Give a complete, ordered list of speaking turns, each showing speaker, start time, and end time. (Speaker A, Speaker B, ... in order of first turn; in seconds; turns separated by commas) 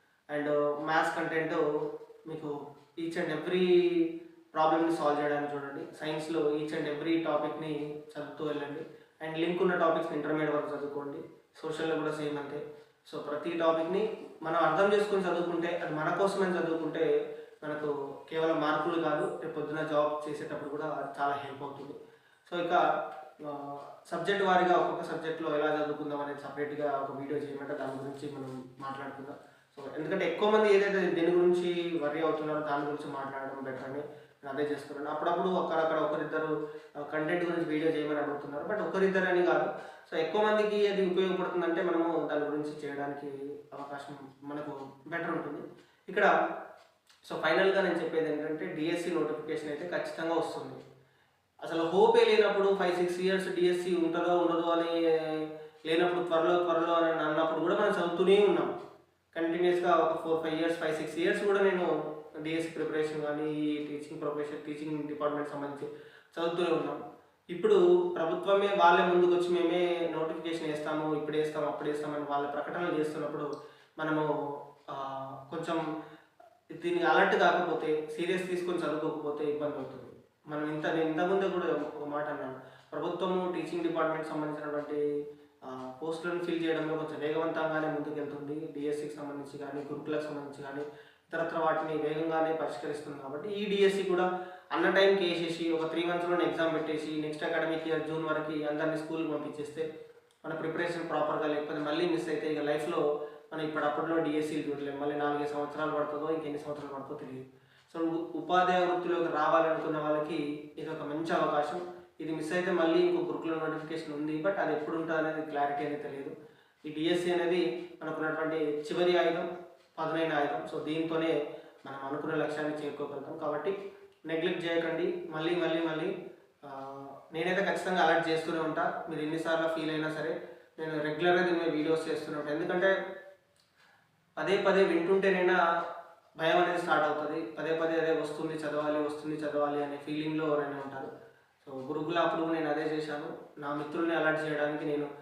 Speaker A: 0.3-1.6, Speaker A: 2.3-17.1, Speaker A: 17.6-21.9, Speaker A: 22.5-22.8, Speaker A: 23.4-36.5, Speaker A: 37.0-46.3, Speaker A: 47.3-50.8, Speaker A: 51.6-58.7, Speaker A: 59.3-61.9, Speaker A: 62.4-67.0, Speaker A: 67.5-73.5, Speaker A: 74.0-74.3, Speaker A: 74.9-75.8, Speaker A: 76.7-85.0, Speaker A: 85.6-99.8, Speaker A: 100.4-116.3, Speaker A: 116.9-121.3, Speaker A: 121.8-123.7, Speaker A: 124.3-126.1, Speaker A: 126.6-132.9, Speaker A: 134.4-135.6, Speaker A: 136.4-141.1, Speaker A: 141.6-145.1